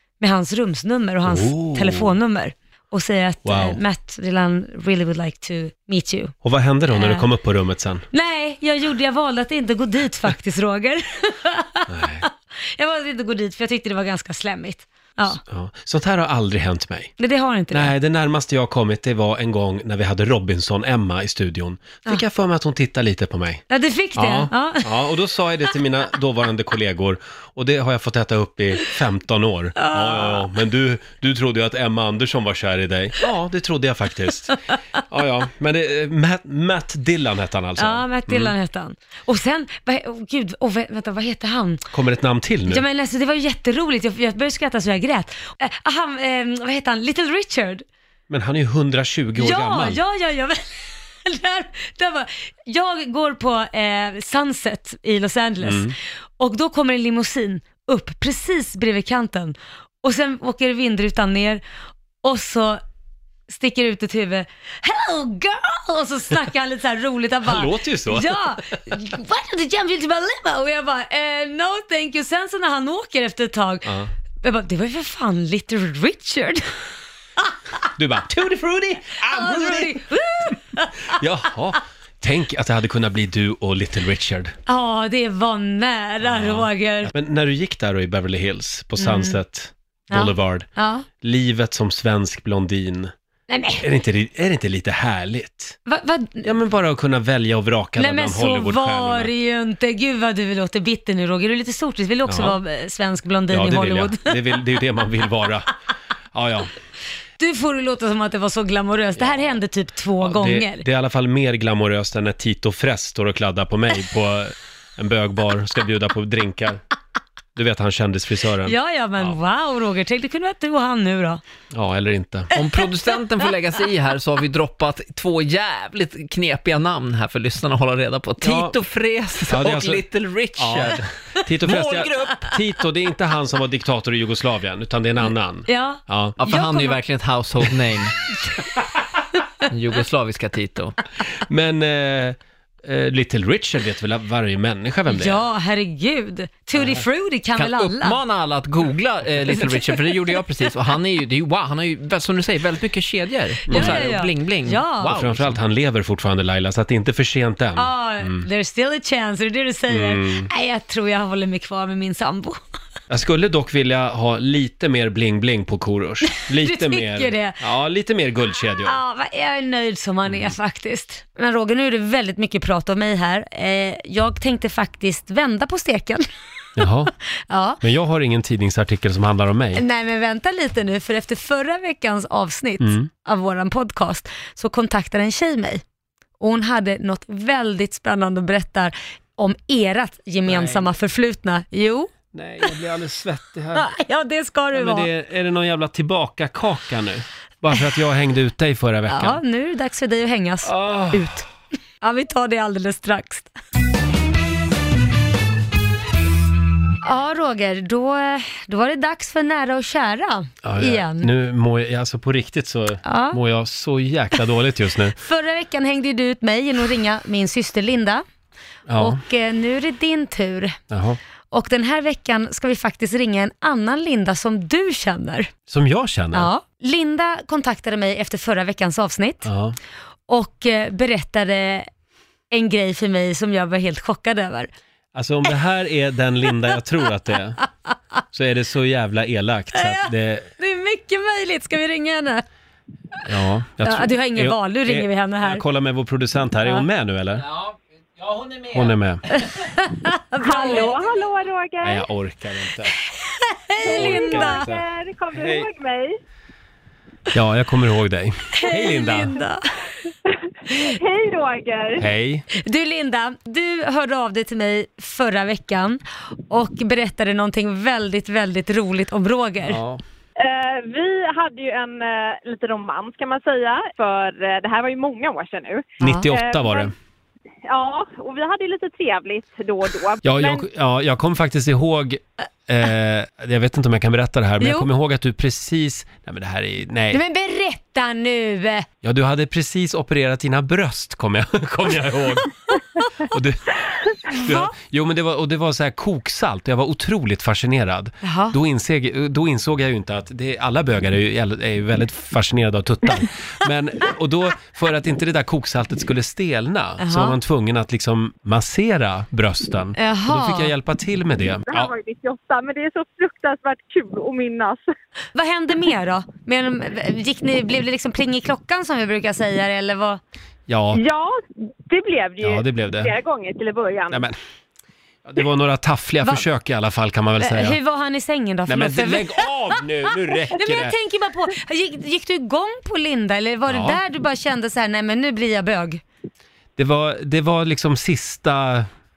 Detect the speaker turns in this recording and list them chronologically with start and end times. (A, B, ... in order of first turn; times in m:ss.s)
0:00.2-0:06.4 A
0:01.2-0:02.2 B
0:03.4-0:03.8 B
0:06.4-0:08.0 B
0:06.9-0:07.3 A
0:08.1-0:15.4 A
0:11.9-0:12.2 B
0:15.4-0:17.1 B
0:17.2-0:17.9 A
0:17.7-0:23.6 B
0:23.7-0:25.1 A
0:24.2-0:38.5 B
0:29.8-0:30.5 A
0:37.8-0:41.9 A
0:41.9-0:42.8 B
0:42.7-0:47.8 A
0:48.3-0:50.0 B
0:49.4-1:01.6 A
0:55.6-0:56.0 B
1:02.2-1:02.8 A
1:03.5-1:16.6 A
1:07.4-1:08.4 B
1:13.8-1:14.1 B
1:18.0-1:20.0 B
1:19.2-1:21.2 A
1:21.1-1:24.6 B
1:24.7-1:27.1 A
1:26.2-1:30.7 B
1:29.0-1:29.4 A
1:30.1-1:31.1 A
1:31.2-1:33.1 B
1:33.5-1:33.9 A
1:33.8-1:35.8 B
1:35.9-1:36.5 A
1:36.4-1:39.3 B
1:38.0-1:44.6 A
1:42.3-1:42.6 B
1:43.5-1:45.7 B
1:46.3-1:46.7 B
1:47.4-1:50.8 A
1:50.2-1:56.8 B
1:57.6-1:59.4 B
1:58.6-2:01.4 A
2:01.7-2:02.5 B
2:02.5-2:11.1 C
2:08.4-2:08.8 B
2:09.5-2:16.4 B
2:11.6-2:12.5 C
2:15.7-2:17.0 A
2:16.4-2:18.2 C
2:19.7-2:21.0 C
2:21.4-2:25.4 B
2:25.1-2:28.2 A
2:26.8-2:27.0 B
2:27.6-2:35.6 C
2:29.5-2:30.4 A
2:33.7-2:35.1 A
2:33.7-2:34.1 B
2:35.1-2:38.5 B
2:37.8-2:42.6 A
2:39.9-2:40.5 B
2:43.1-2:49.0 B
2:46.3-2:47.6 A
2:48.8-2:56.3 A
2:50.3-2:50.6 B
2:56.8-2:57.1 B
2:57.5-2:57.8 A
2:57.8-2:59.8 B
2:59.8-3:05.8 A
3:02.8-3:03.1 B
3:06.4-3:12.1 A
3:10.5-3:10.9 B
3:12.3-3:13.9 B
3:13.7-3:15.1 A
3:14.7-3:19.4 B
3:19.1-3:21.5 A
3:20.6-3:21.4 B
3:22.0-3:23.5 A
3:27.0-3:31.3 A
3:30.6-3:35.2 B
3:33.0-3:33.4 A
3:35.2-3:38.2 A
3:38.9-3:39.2 B
3:39.0-3:40.8 A
3:40.9-3:41.2 B
3:41.5-3:45.5 A
3:45.7-3:46.5 B
3:46.3-3:49.5 A
3:49.4-3:49.8 B
3:50.3-3:51.9 A
3:52.5-3:54.7 A
3:55.1-3:57.6 B
3:58.3-4:00.5 B
3:59.7-4:02.4 A
4:03.3-4:07.4 B
4:03.8-4:05.6 A
4:07.4-4:08.9 C
4:08.7-4:09.2 B
4:09.3-4:10.9 A
4:10.4-4:12.0 D
4:11.8-4:13.0 B
4:13.1-4:14.7 A
4:13.8-4:16.2 D
4:13.8-4:15.7 B
4:17.3-4:19.4 B
4:18.6-4:19.6 A
4:20.3-4:22.1 D
4:20.7-4:21.0 A
4:22.0-4:22.5 B
4:22.5-4:29.8 A
4:29.7-4:30.0 B
4:30.4-4:36.9 D
4:36.0-4:36.9 B
4:36.0-4:36.3 A
4:37.7-4:40.7 D
4:40.2-4:47.2 B
4:44.6-4:44.9 A
4:47.1-4:48.9 A
4:49.0-4:52.5 B
4:53.2-5:11.9 B
4:54.3-4:54.7 A
4:58.2-4:58.6 A
5:07.0-5:07.4 A
5:10.0-5:10.7 A
5:11.7-5:14.9 D
5:15.4-5:20.2 A
5:20.7-5:21.0 B
5:20.9-5:24.3 D
5:22.4-5:23.1 B
5:24.1-5:24.4 B
5:25.2-5:27.8 B
5:27.4-5:29.5 A
5:28.7-5:31.0 B
5:30.5-5:36.0 A
5:33.7-5:34.0 B
5:36.8-5:38.9 B